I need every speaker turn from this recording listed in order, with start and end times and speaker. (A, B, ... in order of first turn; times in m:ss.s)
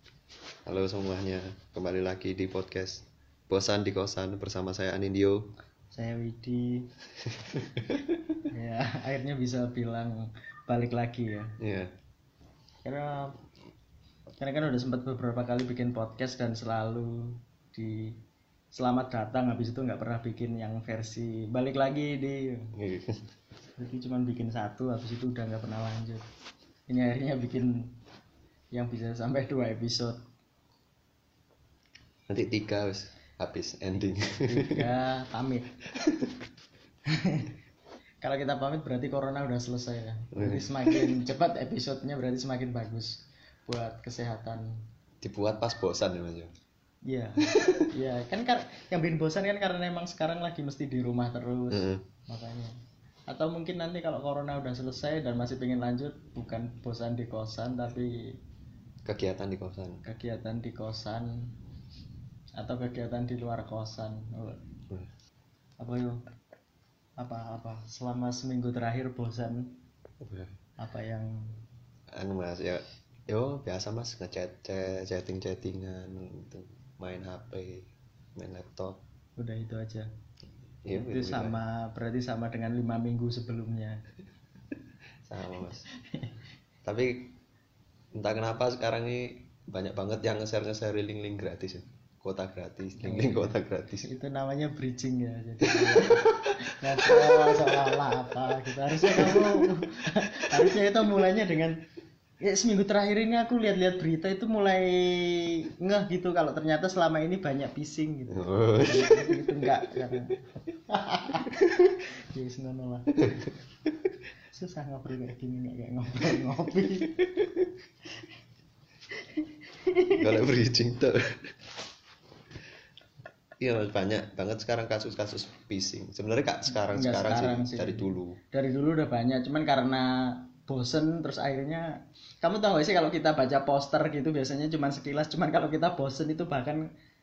0:00.6-0:05.5 A
0:05.9-0:06.9 B
0:07.3-0:08.1 A
0:08.5-0:11.5 B
0:11.6-0:11.9 A
0:12.8-0:13.4 B
0:14.4-0:18.2 B
0:18.7-0:22.7 B
0:22.8-0:23.2 A
0:23.8-0:26.2 B
0:26.9-0:27.9 B
0:28.7-0:30.2 B
0:32.3-0:34.8 A
0:34.5-0:35.7 B
0:36.0-0:36.3 A
0:37.2-0:37.5 B
0:38.2-0:44.6 B
0:40.3-0:41.1 A
0:45.2-0:46.5 A
0:47.1-0:52.8 B
0:47.4-0:47.8 A
0:51.7-0:52.0 A
0:53.3-0:58.1 B
0:59.0-1:00.0 A
1:00.0-1:01.5 B
1:02.6-1:04.6 B
1:05.8-1:06.2 B
1:07.2-1:09.8 B
1:10.2-1:10.5 A
1:10.8-1:11.3 B
1:12.2-1:19.0 A
1:19.4-1:20.1 B
1:20.8-1:21.6 A
1:20.9-1:24.0 B
1:25.3-1:25.8 A
1:25.7-1:26.3 B
1:26.8-1:27.4 A
1:28.2-1:34.1 A
1:33.0-1:41.8 B
1:35.6-1:36.4 A
1:37.0-1:37.8 A
1:39.0-1:39.7 A
1:42.4-1:50.4 B
1:48.3-1:50.2 A
1:50.9-1:53.1 B
1:53.2-1:53.5 A
1:54.5-1:57.2 B
1:57.2-1:57.6 A
1:59.9-2:00.2 B
2:00.1-2:01.4 A
2:03.6-2:08.4 A
2:06.9-2:11.9 B
2:12.4-2:16.8 B